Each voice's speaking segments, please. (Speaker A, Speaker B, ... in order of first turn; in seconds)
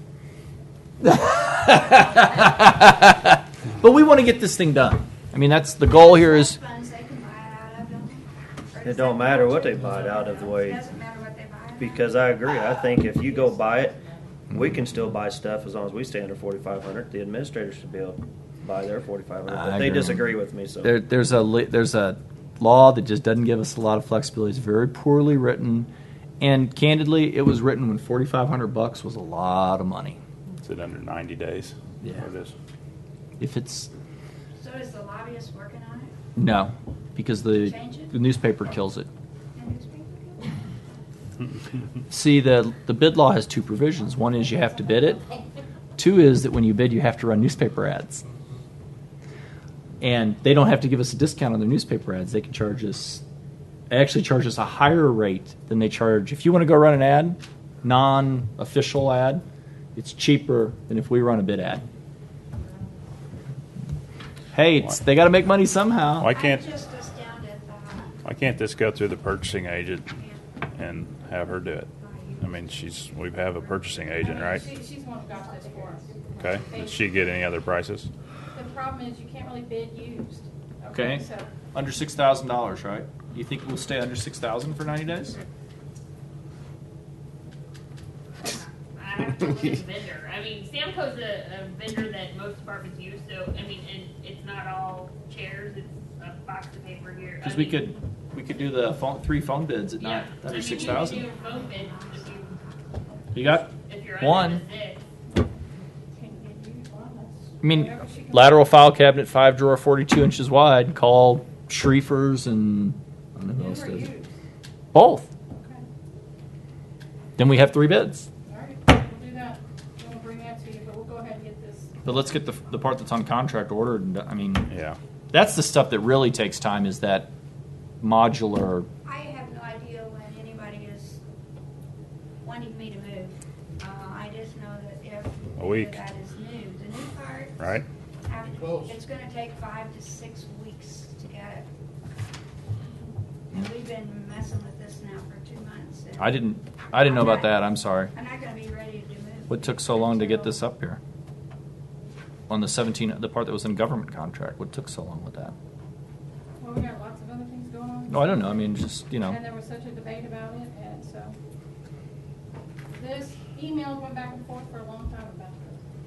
Speaker A: 1.0-6.6, 19.5-25.9, 26.4-30.2, 33.4-33.9, 36.4-39.1, 42.1-45.2, 46.0-48.2, 50.0-53.2, 53.9-59.4, 60.0-61.9, 64.5-66.3, 80.9-85.4, 97.4-101.3, 103.3-104.6, 107.6-114.1, 114.9-115.3, 117.4-118.3, 122.0-124.7, 125.3-127.3, 128.0-128.9, 146.2-148.1, 149.5-151.0, 152.5-155.6, 158.1-159.4
Speaker B: 1.7-2.5, 5.8-14.4, 34.6-36.1, 37.6-38.2, 39.5-40.6, 66.3-68.2, 70.2-70.6, 71.9-73.8, 75.7-76.4, 100.5-103.4, 129.0-131.2, 132.4-141.7, 143.5-150.6
Speaker C: 8.8-10.8, 11.8-14.0, 14.5-20.9
Speaker D: 30.6-32.5, 66.2-66.7, 68.2-70.2, 70.8-74.7, 76.4-78.1, 124.7-125.0, 135.6-136.0, 137.6-137.8
Speaker E: 74.2-77.4, 78.5-81.5, 106.2-108.7, 113.5-114.4, 115.5-115.8, 118.5-122.4, 156.6-161.4, 162.9-165.8
Speaker F: 88.4-97.9, 100.0-102.6, 103.8-105.0